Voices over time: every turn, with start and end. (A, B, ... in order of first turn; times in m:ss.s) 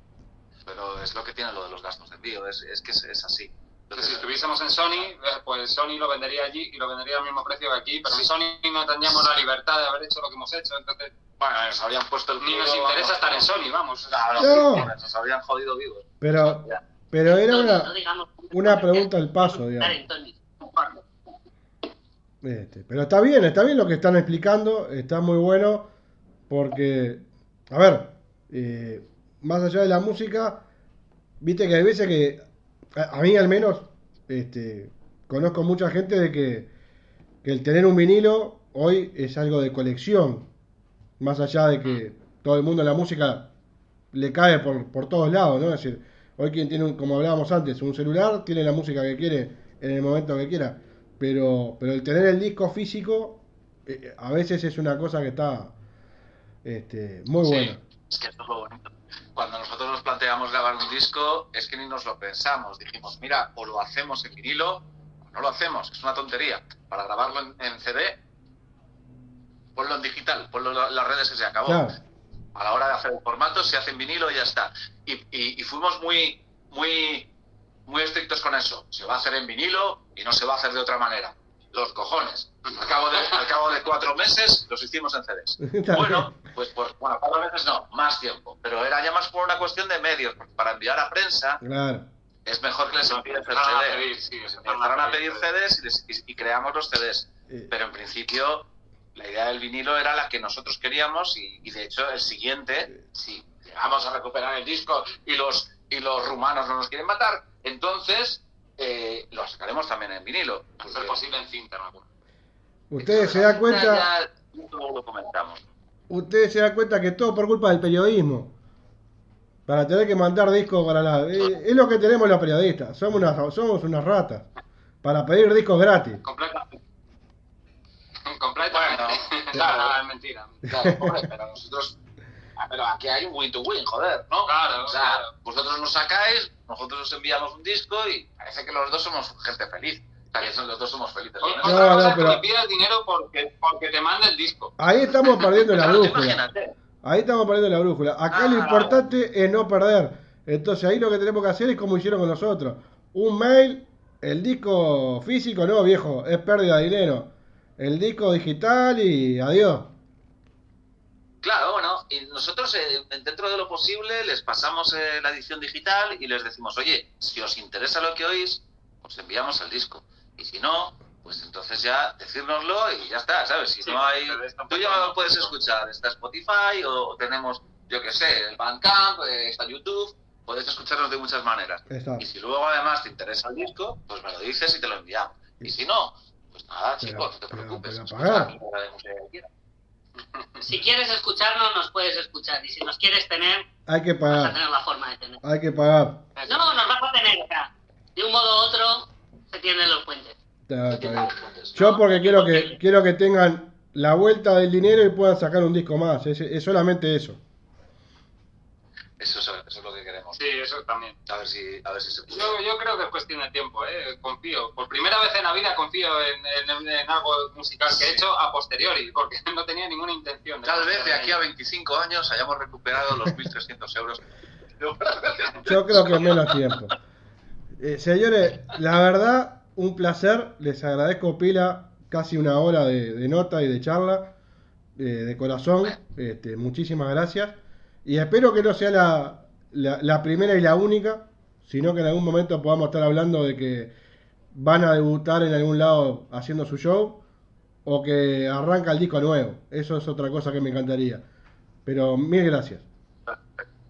0:00.7-0:05.1 A
0:03.9-0:11.1 B
0:11.4-0:13.5 A
0:12.4-0:14.6 B
0:14.1-0:16.8 A
0:14.4-0:14.9 C
0:16.2-0:17.9 C
0:17.3-0:20.4 D
0:18.5-0:20.0 C
0:22.4-0:25.9 C
0:26.5-0:30.6 C
0:31.4-0:36.7 C
0:37.4-0:40.5 C
0:41.2-0:43.5 C
0:44.1-0:55.7 C
0:56.6-0:57.8 C
0:57.4-1:08.2 A
1:09.8-1:11.9 A
1:11.6-1:12.0 C
1:12.6-1:17.3 A
1:17.9-1:31.6 A
1:25.6-1:26.3 C
1:31.6-1:32.1 C
1:32.5-1:51.2 A
1:33.1-1:35.5 B
1:50.8-1:52.0 B
1:52.9-1:54.0 C
1:53.0-1:55.6 A
1:56.1-1:58.5 C
1:59.7-2:04.5 C
2:05.0-2:06.2 C
2:06.2-2:06.8 B
2:08.3-2:10.6 B
2:08.7-2:10.0 A
2:10.7-2:12.0 A
2:12.6-2:22.4 A
2:14.4-2:15.3 B
2:21.4-2:24.7 B
2:21.6-2:22.4 C
2:24.8-2:26.4 C
2:25.7-2:26.7 A
2:27.0-2:39.9 C
2:28.3-2:29.0 A
2:28.3-2:29.0 B
2:41.4-3:09.5 A
2:53.8-2:55.6 B
3:01.9-3:02.2 C
3:07.0-3:08.5 C
3:10.6-3:13.7 D
3:13.9-3:14.6 C
3:14.3-3:15.4 D
3:15.4-3:16.3 C
3:16.4-3:16.8 B
3:16.5-3:20.4 D
3:20.7-3:27.4 C
3:20.9-3:21.8 A
3:21.8-3:22.8 D
3:29.2-3:30.4 A
3:30.4-3:31.2 B
3:31.3-3:32.6 A
3:32.3-3:41.4 B
3:37.9-3:38.2 A
3:40.6-3:44.2 A
3:44.8-3:46.7 A
3:45.6-3:46.9 C
3:47.8-3:54.4 C
3:55.0-4:03.9 C
4:04.5-4:07.2 C
4:07.8-4:11.2 C
4:11.8-4:12.8 C
4:13.3-4:13.6 A